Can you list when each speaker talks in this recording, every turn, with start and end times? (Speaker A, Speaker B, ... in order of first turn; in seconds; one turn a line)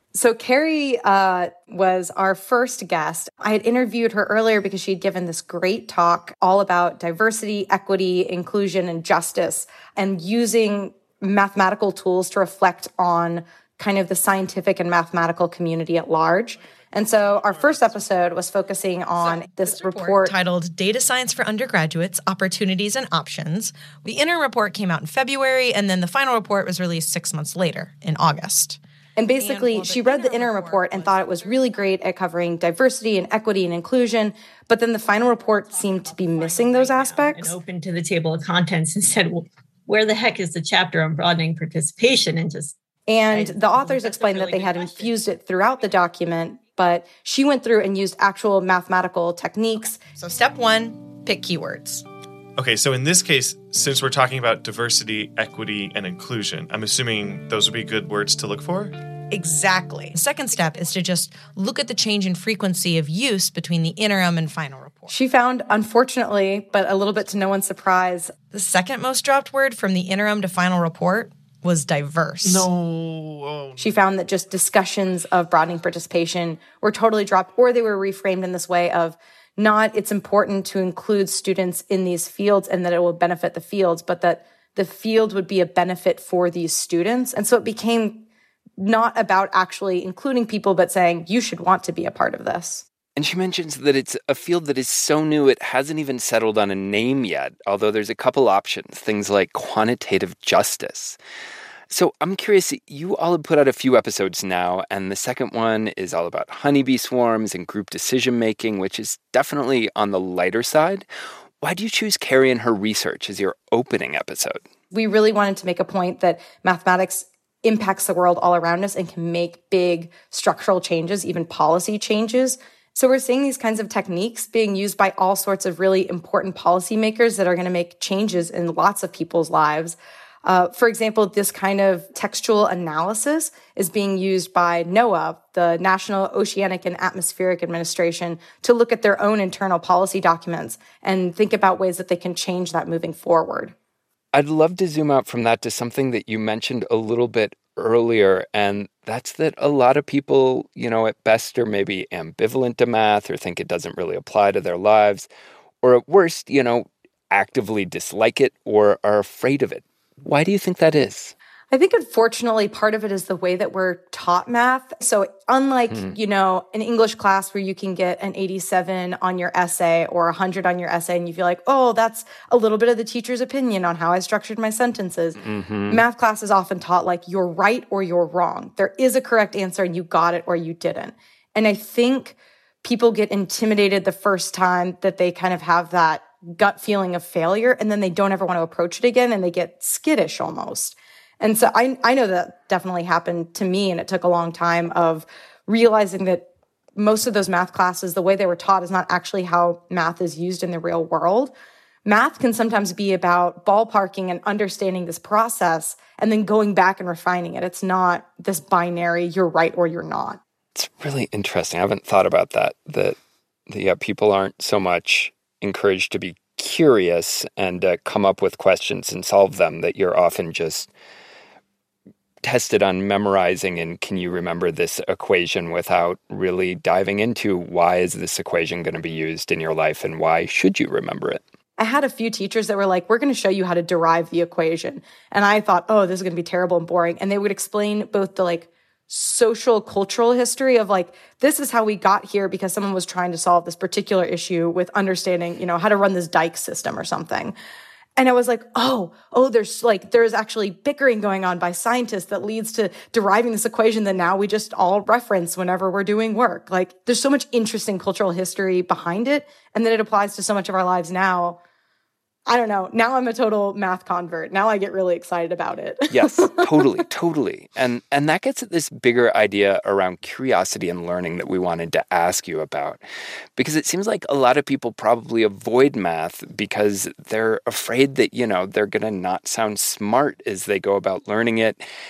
Speaker A: 0.1-20.4
Speaker B: 16.6-18.1
Speaker C: 19.2-28.8
Speaker A: 29.2-37.6
Speaker C: 29.4-31.8
Speaker D: 35.4-42.7
Speaker A: 43.1-50.1
Speaker D: 43.3-45.2
Speaker C: 50.1-52.0
Speaker B: 52.6-59.0
Speaker C: 59.3-65.1
Speaker A: 65.1-68.4
Speaker C: 68.5-69.1
Speaker A: 69.1-69.5
Speaker C: 69.6-72.3
Speaker B: 72.4-74.2
Speaker A: 73.8-88.3
Speaker A: 88.8-92.8
Speaker E: 93.2-101.2
Speaker E: 101.9-111.1
Speaker E: 111.6-114.6
Speaker A: 114.9-143.7
Speaker E: 144.3-155.3
Speaker E: 155.8-161.3
Speaker A: 161.7-175.4
Speaker E: 175.4-176.0
Speaker A: 175.9-201.5
Speaker A: 202.1-210.4
Speaker E: 210.8-213.2
Speaker E: 213.7-220.9
Speaker E: 222.4-231.4
Speaker A: 231.8-247.6
Speaker A: 248.2-261.6
Speaker A: 262.5-266.9
Speaker E: 266.1-273.0
Speaker E: 273.6-281.8